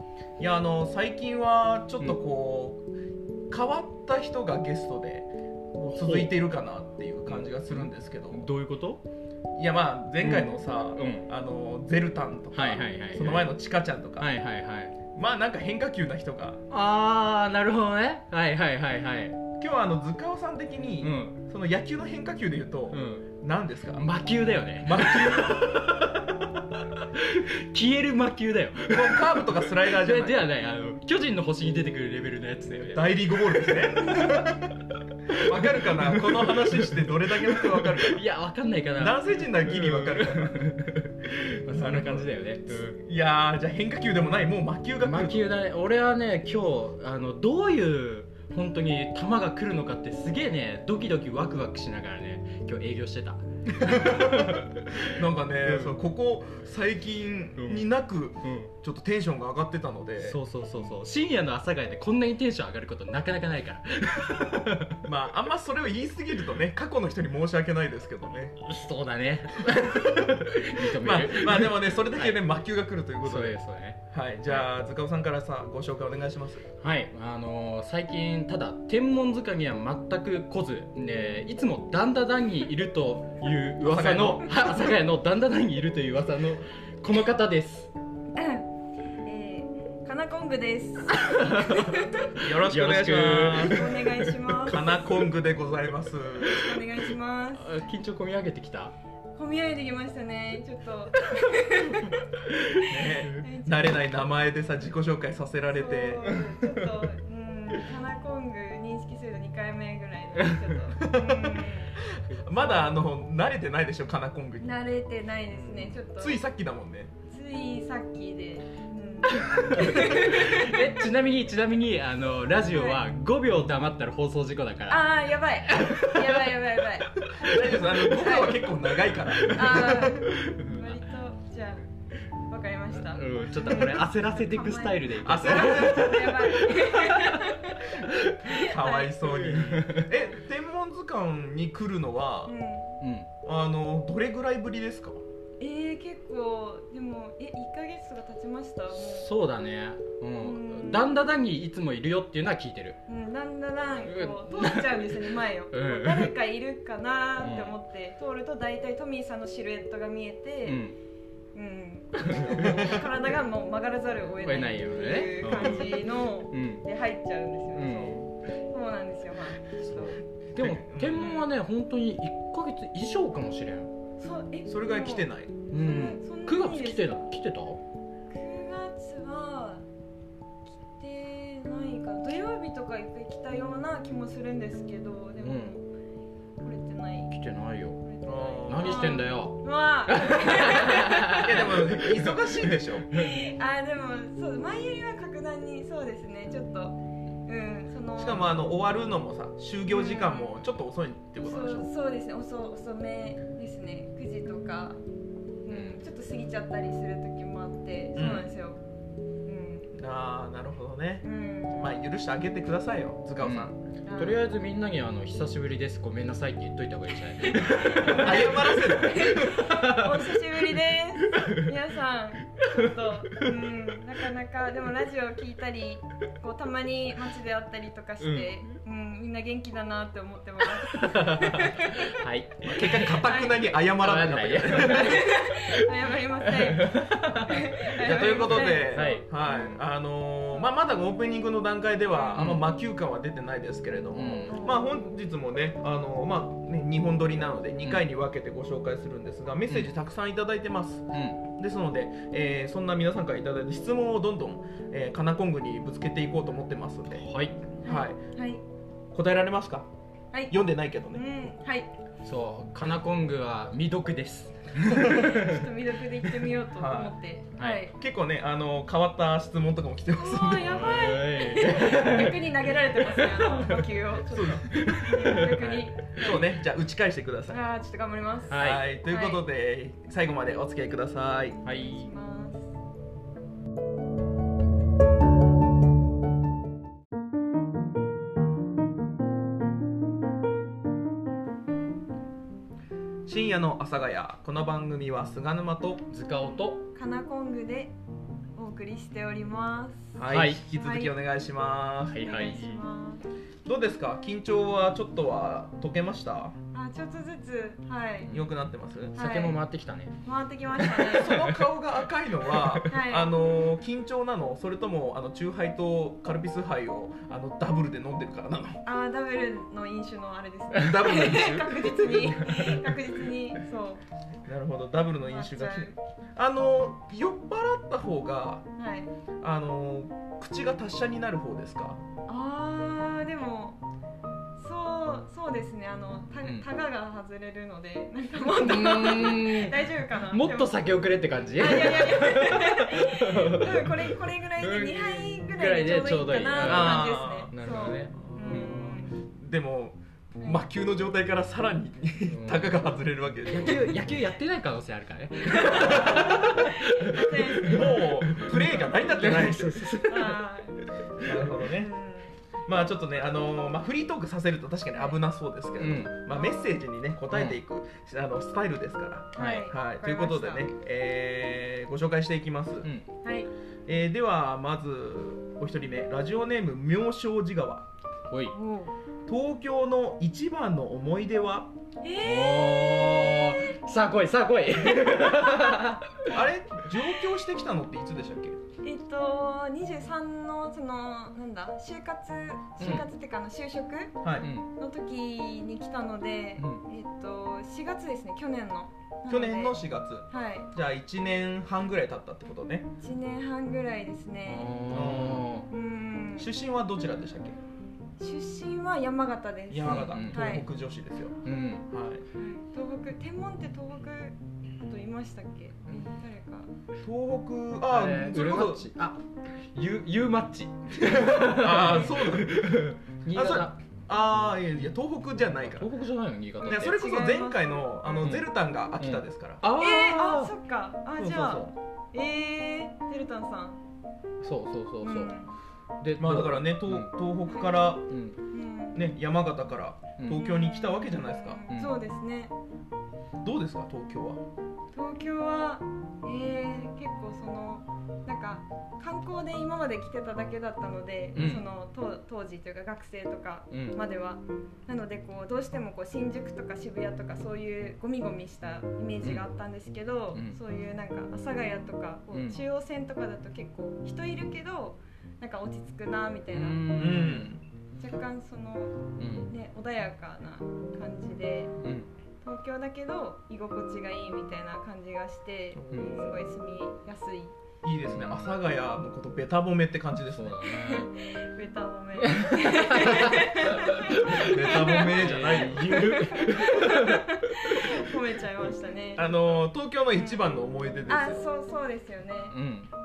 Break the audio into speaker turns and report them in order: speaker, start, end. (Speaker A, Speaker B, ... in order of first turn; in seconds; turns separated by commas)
Speaker A: 0.4-2.8, Speaker A: 3.5-8.4, Speaker B: 6.0-6.3, Speaker B: 7.3-9.0, Speaker A: 9.6-14.3, Speaker B: 10.2-11.3, Speaker B: 12.5-13.5, Speaker B: 14.2-14.9, Speaker A: 15.1-16.6, Speaker B: 16.7-19.4, Speaker A: 19.6-24.1, Speaker B: 21.0-21.4, Speaker B: 22.9-23.3, Speaker B: 23.9-33.1, Speaker A: 24.8-25.9, Speaker A: 28.9-30.4, Speaker A: 32.8-38.2, Speaker B: 35.3-43.0, Speaker A: 39.0-40.8, Speaker A: 41.6-45.5, Speaker B: 45.0-55.0, Speaker A: 53.7-60.4, Speaker B: 55.6-56.0, Speaker B: 57.6-57.9, Speaker B: 58.4-58.7, Speaker B: 60.2-65.0, Speaker A: 65.0-68.6, Speaker B: 68.6-72.4, Speaker A: 69.7-73.5, Speaker B: 73.2-74.0, Speaker A: 74.1-76.7, Speaker B: 76.8-87.9, Speaker A: 83.8-84.6, Speaker C: 88.3-88.7, Speaker C: 89.2-92.4, Speaker A: 92.4-94.0, Speaker B: 92.4-94.7, Speaker C: 93.6-95.1, Speaker A: 94.7-96.8, Speaker C: 96.4-97.7, Speaker B: 97.6-98.9, Speaker C: 99.3-102.2, Speaker C: 102.8-104.0, Speaker A: 102.8-106.4, Speaker C: 105.7-112.0, Speaker A: 111.0-114.8, Speaker C: 114.6-116.4, Speaker A: 115.5-117.1, Speaker C: 117.3-121.0, Speaker B: 119.4-125.1, Speaker C: 122.7-123.0, Speaker C: 124.9-128.6, Speaker B: 125.7-126.6, Speaker B: 127.3-127.6, Speaker A: 127.4-130.2, Speaker B: 129.4-130.9, Speaker C: 129.4-131.8, Speaker C: 132.5-139.1, Speaker B: 132.9-137.5, Speaker A: 135.2-136.3, Speaker A: 138.5-142.5, Speaker B: 139.3-140.1, Speaker C: 142.4-143.0, Speaker B: 143.0-143.3, Speaker A: 143.4-145.2, Speaker C: 145.6-149.3, Speaker B: 148.9-153.0, Speaker C: 150.4-151.1, Speaker C: 153.1-160.8, Speaker B: 154.1-156.3, Speaker B: 157.4-157.7, Speaker B: 160.7-160.9, Speaker C: 161.5-170.2, Speaker B: 162.3-163.0, Speaker B: 164.4-166.8, Speaker B: 167.7-168.2, Speaker B: 169.8-173.9, Speaker A: 170.6-171.3, Speaker C: 171.2-171.5, Speaker C: 174.2-177.2, Speaker A: 174.7-175.5, Speaker B: 175.7-177.8, Speaker C: 178.3-179.8, Speaker C: 180.8-185.8, Speaker B: 185.4-185.7, Speaker C: 186.6-187.3, Speaker B: 187.3-188.0, Speaker C: 188.0-191.7, Speaker A: 188.2-189.1, Speaker B: 188.7-193.3, Speaker A: 191.3-193.1, Speaker C: 193.1-198.5, Speaker A: 198.2-201.9, Speaker C: 199.9-200.6, Speaker C: 201.4-205.0, Speaker C: 205.6-208.8, Speaker B: 205.7-206.0, Speaker A: 208.1-208.5, Speaker C: 209.4-209.9, Speaker A: 209.9-213.8, Speaker C: 211.2-212.0, Speaker B: 213.4-220.4, Speaker C: 214.0-214.4, Speaker C: 217.4-232.2, Speaker A: 218.0-219.7, Speaker B: 221.3-221.6, Speaker B: 228.2-228.6, Speaker B: 230.8-233.2, Speaker A: 232.6-235.3, Speaker C: 233.0-233.7, Speaker B: 233.9-239.2, Speaker C: 234.7-239.8, Speaker A: 238.0-257.3, Speaker C: 242.1-242.4, Speaker B: 242.3-242.6, Speaker B: 244.1-244.6, Speaker C: 244.5-245.1, Speaker B: 251.1-251.4, Speaker B: 257.2-257.6, Speaker C: 257.8-258.6, Speaker A: 257.8-258.2, Speaker A: 259.1-259.9, Speaker C: 260.3-260.6, Speaker A: 260.5-261.2, Speaker C: 261.1-261.9, Speaker B: 262.2-265.7, Speaker C: 264.9-267.9, Speaker A: 266.7-267.1, Speaker B: 267.6-267.8, Speaker A: 267.9-270.9, Speaker C: 270.1-276.5, Speaker B: 270.6-273.8, Speaker A: 274.2-275.2, Speaker B: 274.7-276.4, Speaker A: 276.2-277.6, Speaker C: 277.5-279.4, Speaker B: 278.5-278.8, Speaker A: 278.5-281.6, Speaker B: 281.6-282.1, Speaker C: 281.7-282.7, Speaker A: 293.2-296.1, Speaker B: 296.1-296.8, Speaker C: 296.9-297.9, Speaker C: 298.6-300.2, Speaker A: 300.1-302.3, Speaker B: 300.3-300.6, Speaker C: 300.8-301.1, Speaker B: 302.1-302.8, Speaker C: 302.2-303.2, Speaker A: 303.6-306.5, Speaker C: 306.7-308.3, Speaker A: 308.3-309.2, Speaker B: 309.1-310.1, Speaker C: 309.1-309.6, Speaker C: 310.2-311.4, Speaker B: 310.8-311.6, Speaker A: 311.0-318.8, Speaker B: 312.6-312.8, Speaker C: 312.9-313.3, Speaker C: 318.8-324.0, Speaker A: 320.7-322.0, Speaker A: 324.4-328.6, Speaker C: 325.3-326.0, Speaker C: 328.8-329.1, Speaker A: 329.4-332.0, Speaker C: 332.3-333.8, Speaker C: 334.6-340.8, Speaker B: 338.6-349.0, Speaker C: 341.6-349.2, Speaker A: 346.6-347.5, Speaker A: 348.2-354.0, Speaker B: 352.3-352.8, Speaker B: 353.5-360.4, Speaker C: 355.5-358.1, Speaker A: 355.7-356.4, Speaker A: 357.6-360.0, Speaker C: 360.0-360.9, Speaker A: 361.2-361.9, Speaker C: 361.5-362.4, Speaker A: 362.6-372.9, Speaker B: 365.8-366.2, Speaker C: 366.3-366.8, Speaker B: 367.3-367.6, Speaker C: 369.4-370.7, Speaker B: 369.4-369.7, Speaker C: 373.2-373.5, Speaker A: 373.9-377.9, Speaker C: 378.5-378.9, Speaker A: 379.3-381.7, Speaker C: 382.0-383.8, Speaker B: 382.2-386.4, Speaker A: 386.3-388.6, Speaker C: 388.8-394.2, Speaker B: 392.8-393.1, Speaker A: 394.2-394.5, Speaker B: 394.4-394.7, Speaker C: 394.8-400.7, Speaker A: 399.3-402.9, Speaker C: 403.0-405.1, Speaker B: 404.5-405.7, Speaker A: 404.9-405.5, Speaker C: 405.7-406.5, Speaker A: 406.4-407.6, Speaker C: 408.2-410.6, Speaker A: 409.7-412.2, Speaker B: 409.8-410.6, Speaker B: 411.4-411.9, Speaker C: 412.4-416.7, Speaker A: 417.0-418.9, Speaker B: 417.9-419.2, Speaker B: 419.7-423.7, Speaker A: 421.0-425.9, Speaker B: 425.7-426.9, Speaker C: 426.6-428.2, Speaker A: 426.6-429.6, Speaker B: 428.2-430.5, Speaker C: 429.7-433.8, Speaker A: 431.2-431.7, Speaker B: 434.4-435.3, Speaker C: 435.0-435.5, Speaker B: 436.0-437.1, Speaker A: 436.2-438.1, Speaker C: 437.5-437.9, Speaker B: 438.1-438.4, Speaker C: 438.5-439.0, Speaker A: 438.9-441.6, Speaker B: 440.2-440.5, Speaker C: 440.3-442.5, Speaker B: 441.7-442.0, Speaker A: 443.4-444.4, Speaker C: 444.9-467.0, Speaker B: 451.3-451.6, Speaker B: 453.7-454.0, Speaker B: 460.3-460.6, Speaker B: 462.3-462.6, Speaker B: 466.5-467.5, Speaker A: 466.9-467.6, Speaker C: 468.0-471.7, Speaker B: 469.2-469.5, Speaker B: 471.8-472.1, Speaker C: 472.4-477.6, Speaker A: 475.7-476.4, Speaker A: 477.8-480.6, Speaker B: 478.0-478.5, Speaker B: 480.2-481.1, Speaker C: 480.7-489.6, Speaker B: 482.2-487.7, Speaker A: 484.2-486.7, Speaker A: 489.1-491.4, Speaker C: 490.1-490.4, Speaker C: 491.1-492.6, Speaker B: 492.5-492.9